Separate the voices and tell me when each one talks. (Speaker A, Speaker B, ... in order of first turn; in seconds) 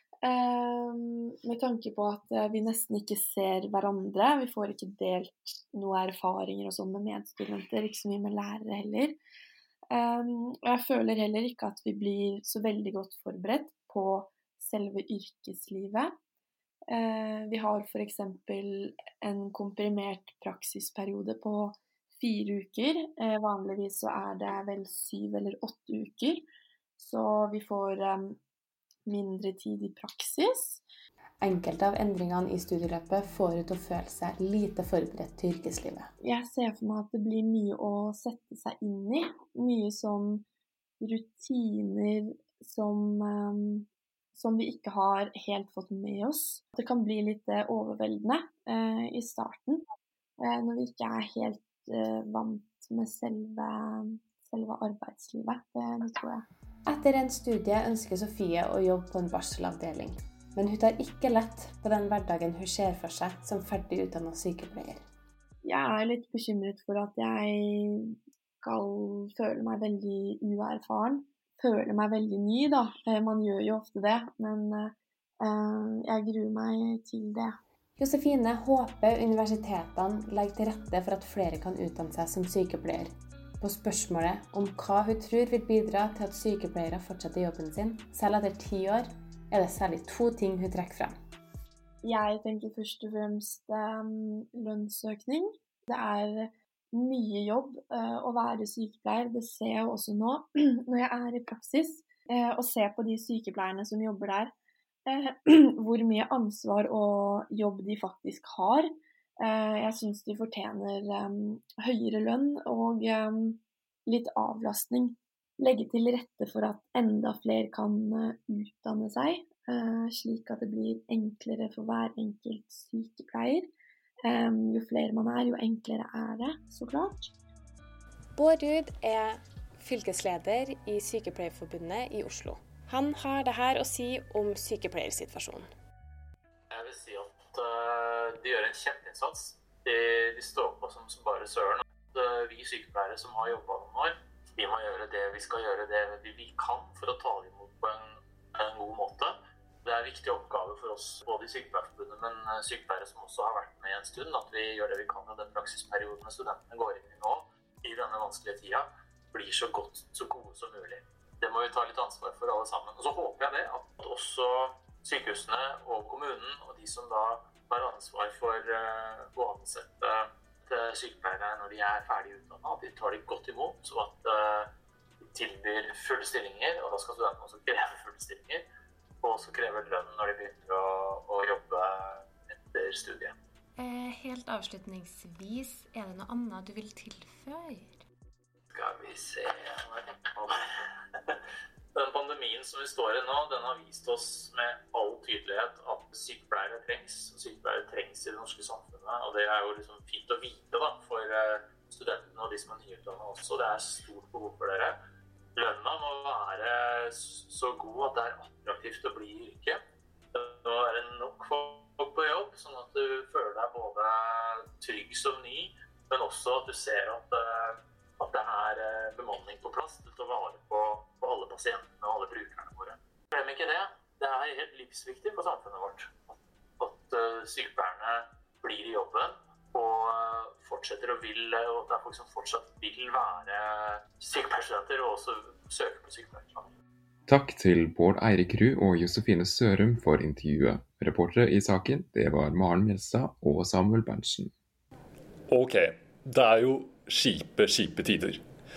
Speaker A: 0.2-9.2, 9.9-16.2, 16.9-26.5, 27.0-28.4, 29.1-30.8, 36.2-40.5, 41.0-49.8, 50.4-56.5, 65.6-77.6, 92.0-104.5, 105.1-123.7, 124.2-127.3
Speaker B: 31.4-36.1, 56.9-65.0, 78.0-91.2, 128.4-135.7
Speaker C: 136.7-174.7, 175.2-178.7, 179.2-183.3, 188.7-190.6, 191.9-205.0, 205.6-209.8, 210.3-236.7
Speaker D: 183.8-188.0
Speaker E: 237.3-244.5
Speaker F: 245.5-248.4